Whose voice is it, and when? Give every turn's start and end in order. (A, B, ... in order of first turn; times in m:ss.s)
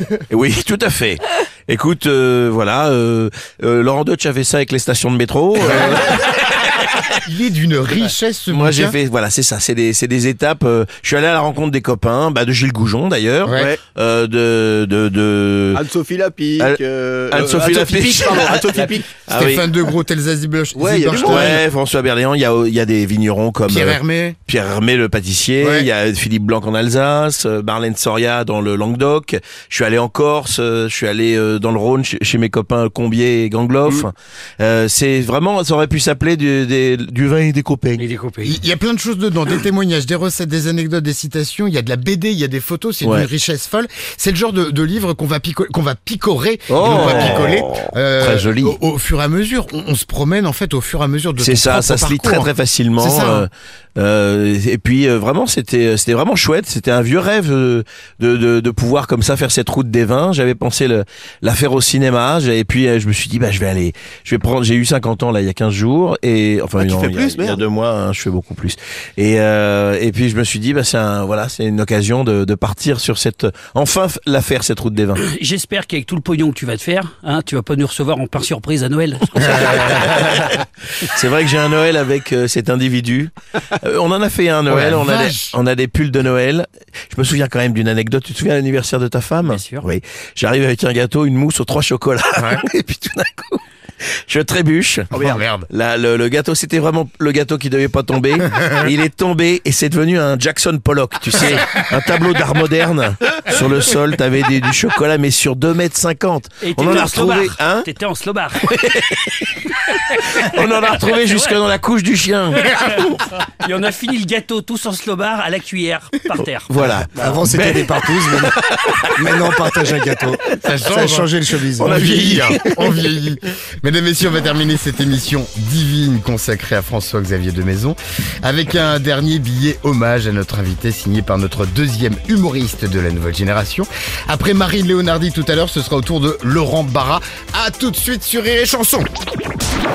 0:00.3-0:07.0 A
0:05.6-0:06.2 B
0:07.2-0:09.0 B
0:08.5-0:15.8 A
0:13.4-0:13.8 B
0:13.5-0:13.8 C
0:15.7-0:19.1 C
0:16.6-0:19.7 A
0:19.3-0:21.6 B
0:20.8-0:21.6 C
0:21.1-0:38.1 A
0:23.7-0:24.4 B
0:25.6-0:25.9 B
0:38.0-0:38.6 D
0:38.4-0:53.5 B
0:43.0-0:43.3 A
0:46.7-0:48.8 A
0:51.4-1:15.2 A
1:06.8-1:07.6 C
1:15.2-1:20.3 D
1:19.4-1:47.9 A
1:24.7-1:25.6 B
1:29.4-1:29.9 D
1:32.4-1:32.6 B
1:35.1-1:35.7 B
1:46.6-1:48.7 D
1:48.6-1:52.8 A
1:51.1-1:51.6 D
1:52.6-1:57.4 D
1:56.4-1:59.8 A
1:57.2-1:58.6 C
1:59.1-2:02.5 C
2:00.6-2:01.4 B
2:01.7-2:02.9 A
2:01.9-2:19.1 B